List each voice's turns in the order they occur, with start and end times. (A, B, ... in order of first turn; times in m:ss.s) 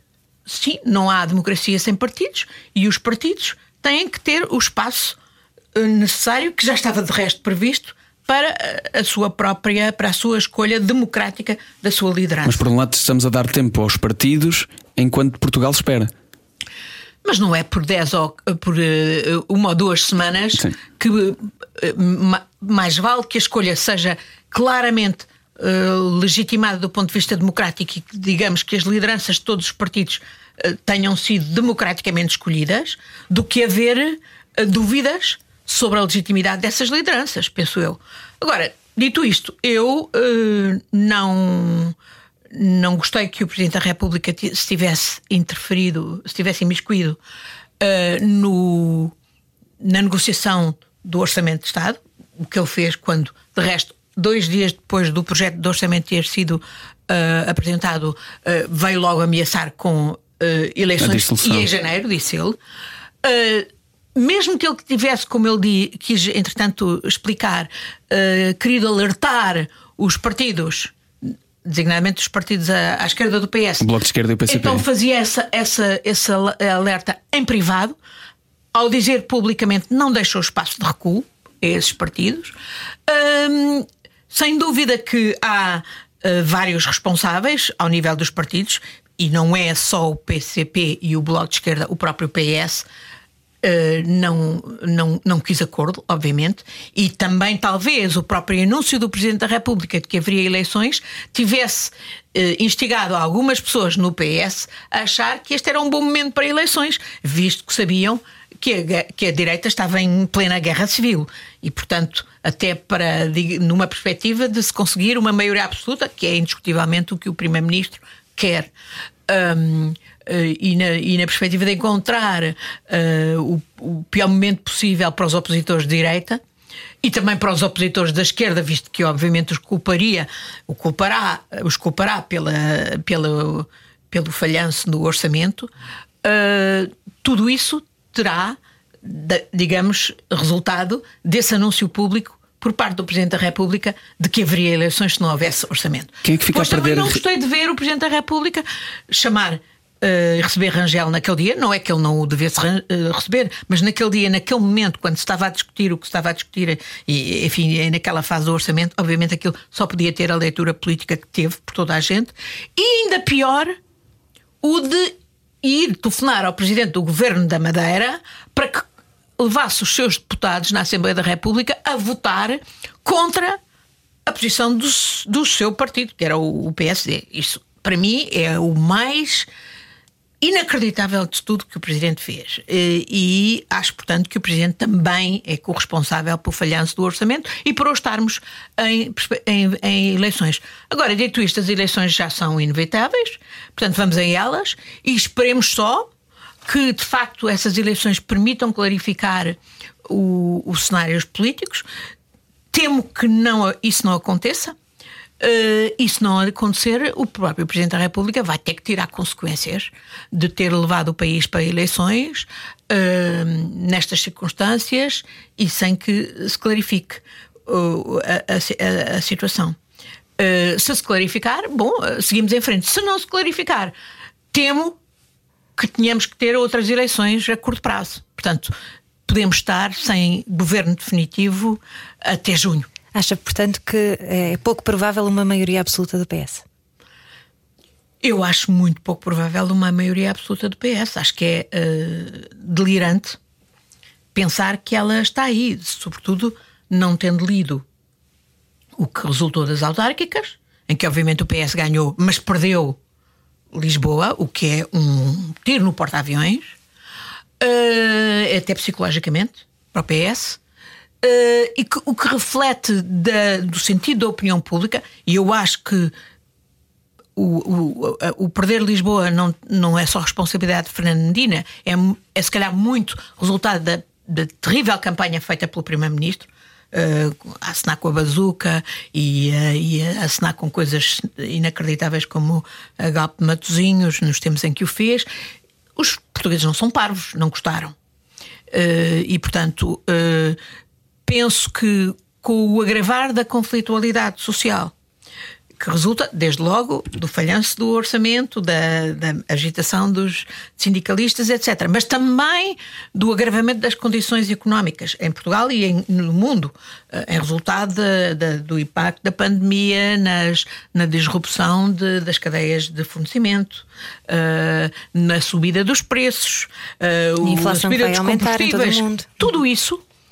0:00.4-0:05.2 A
0:05.7-0:12.6 A
0:12.4-0:16.1 B
0:17.2-0:41.9 A
0:42.5-0:47.2 A
0:47.8-0:49.1 A
0:49.8-1:02.6 A
1:01.0-1:01.7 B
1:03.2-1:13.9 A
1:13.8-1:14.8 B
1:14.5-1:18.0 A
1:18.7-1:22.5 A
1:23.1-1:32.8 A
1:33.6-1:58.7 A
1:59.3-2:06.4 A
2:07.0-2:15.7 A
2:16.2-2:43.7 A
2:26.2-2:27.2 B
2:44.6-2:48.8 A
2:49.4-2:53.6 A
2:54.2-2:59.5 A
3:00.4-3:16.1 A
3:16.6-3:21.8 A
3:22.7-3:24.7 A
3:25.4-3:39.8 A
3:40.4-3:43.9 A
3:44.5-3:45.0 A
3:45.8-3:48.7 A
3:49.2-3:52.9 A
3:53.1-3:56.6 C
3:58.2-4:03.4 A
4:04.3-4:07.8 A
4:09.0-4:13.0 A
4:13.7-4:16.7 A
4:17.6-4:20.6 A
4:21.2-4:26.1 A
4:27.4-4:45.2 A
4:46.0-4:47.9 A
4:48.7-4:50.6 A
4:51.2-4:54.9 A
4:55.8-5:20.0 A
5:17.4-5:19.5 C